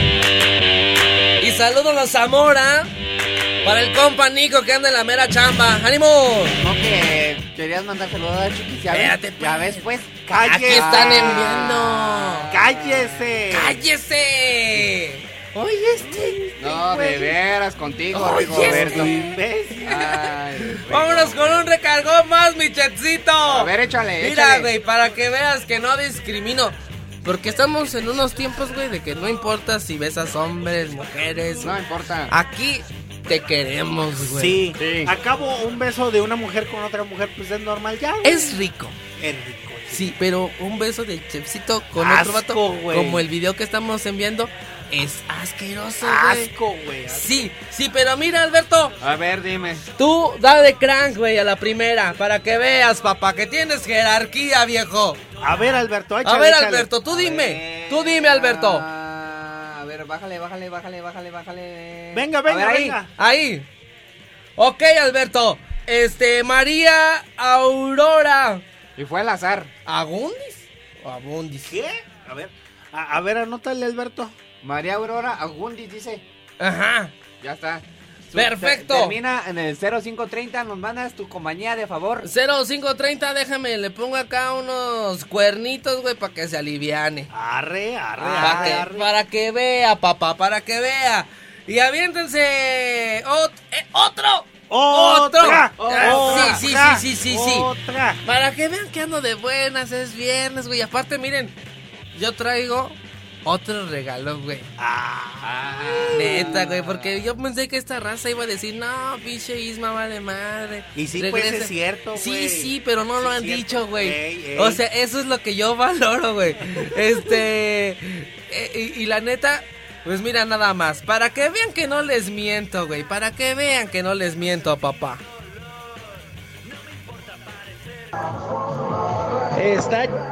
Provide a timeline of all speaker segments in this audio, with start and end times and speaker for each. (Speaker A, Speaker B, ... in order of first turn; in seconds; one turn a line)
Speaker A: 1.4-2.9
Speaker A: 3.6-6.5
Speaker B: 6.6-13.3
Speaker A: 8.9-9.9
Speaker C: 10.3-11.8
Speaker A: 10.4-12.5
Speaker C: 12.5-13.8
Speaker A: 13.5-16.5
Speaker C: 16.5-17.4
Speaker B: 16.6-19.2
Speaker A: 18.1-31.8
Speaker C: 18.3-19.9
Speaker B: 19.9-21.6
Speaker B: 23.5-24.7
Speaker B: 31.6-32.3
Speaker A: 32.3-34.6
Speaker C: 34.3-38.6
Speaker B: 34.8-35.1
Speaker A: 38.2-39.0
Speaker C: 39.2-40.1
Speaker A: 39.9-46.5
Speaker C: 42.0-43.2
Speaker C: 46.0-47.3
Speaker A: 47.1-49.0
Speaker B: 49.0-49.9
Speaker A: 50.0-55.2
Speaker C: 55.4-56.9
Speaker A: 56.2-58.9
Speaker B: 57.1-63.0
Speaker C: 62.1-63.1
Speaker A: 63.2-63.6
Speaker A: 64.6-68.6
Speaker B: 69.0-69.7
Speaker A: 69.9-71.8
Speaker C: 71.7-74.3
Speaker B: 74.6-76.2
Speaker A: 76.6-77.1
Speaker B: 77.4-82.3
Speaker A: 78.3-79.2
Speaker A: 82.2-87.3
Speaker C: 87.3-89.1
Speaker B: 88.2-88.9
Speaker A: 88.4-97.7
Speaker C: 94.7-98.2
Speaker B: 95.5-96.6
Speaker A: 98.2-101.5
Speaker A: 102.1-104.7
Speaker C: 104.8-106.6
Speaker B: 105.4-107.2
Speaker A: 106.1-125.2
Speaker C: 111.0-114.8